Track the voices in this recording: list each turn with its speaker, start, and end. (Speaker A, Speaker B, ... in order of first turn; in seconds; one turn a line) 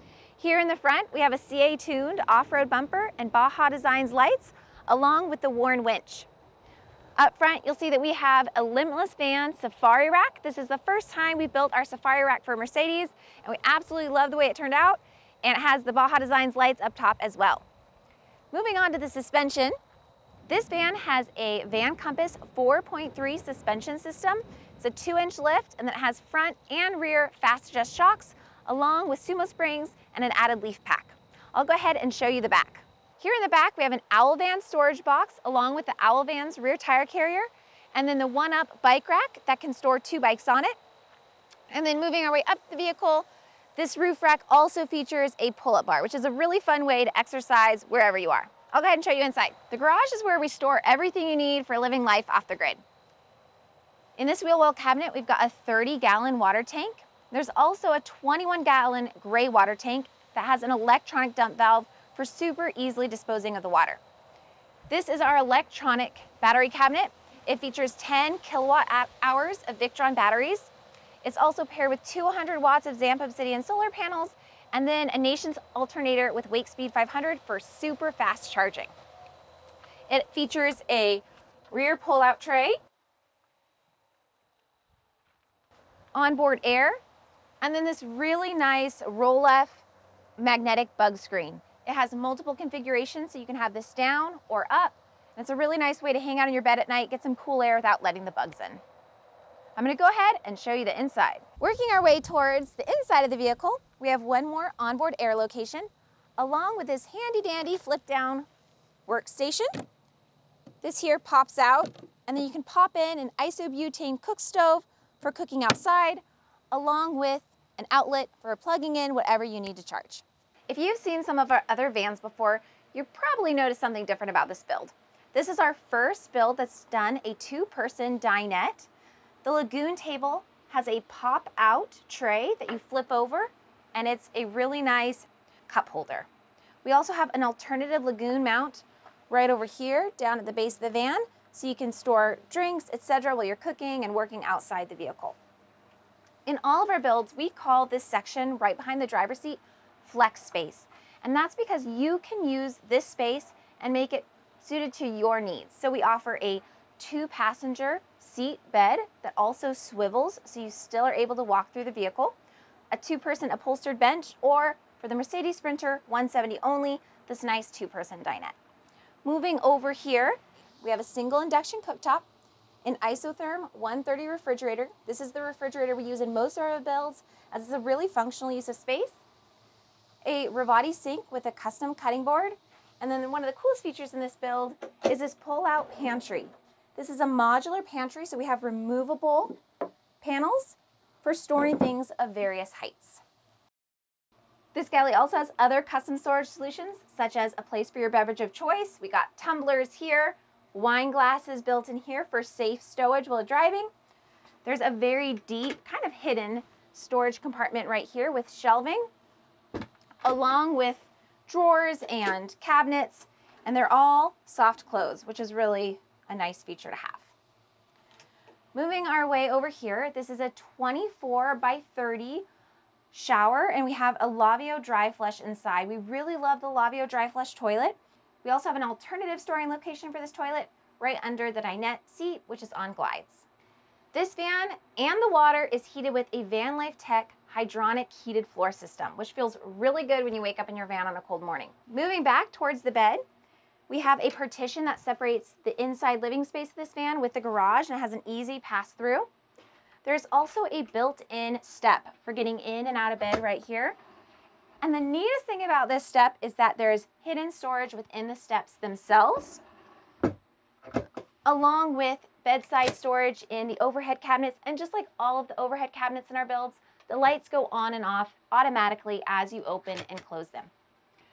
Speaker A: 0.4-6.3
Speaker A: 7.2-17.6
Speaker A: 18.5-19.7
Speaker A: 20.5-40.8
Speaker A: 41.7-52.8
Speaker A: 54.2-64.0
Speaker A: 64.9-78.9
Speaker A: 80.1-82.8
Speaker A: 86.1-87.0
Speaker A: 87.6-89.8
Speaker A: 90.4-98.8
Speaker A: 99.8-108.5
Speaker A: 109.1-109.8
Speaker A: 110.8-128.9
Speaker A: 129.4-136.3
Speaker A: 136.8-145.4
Speaker A: 146.4-162.3
Speaker A: 162.9-168.6
Speaker A: 169.2-172.3
Speaker A: 172.8-179.2
Speaker A: 180.2-189.6
Speaker A: 190.2-193.2
Speaker A: 194.7-203.9
Speaker A: 204.6-209.1
Speaker A: 210.2-217.3
Speaker A: 218.7-222.5
Speaker A: 223.1-233.4
Speaker A: 234.1-243.2
Speaker A: 243.9-249.3
Speaker A: 250.0-254.0
Speaker A: 254.8-259.6
Speaker A: 261.4-270.7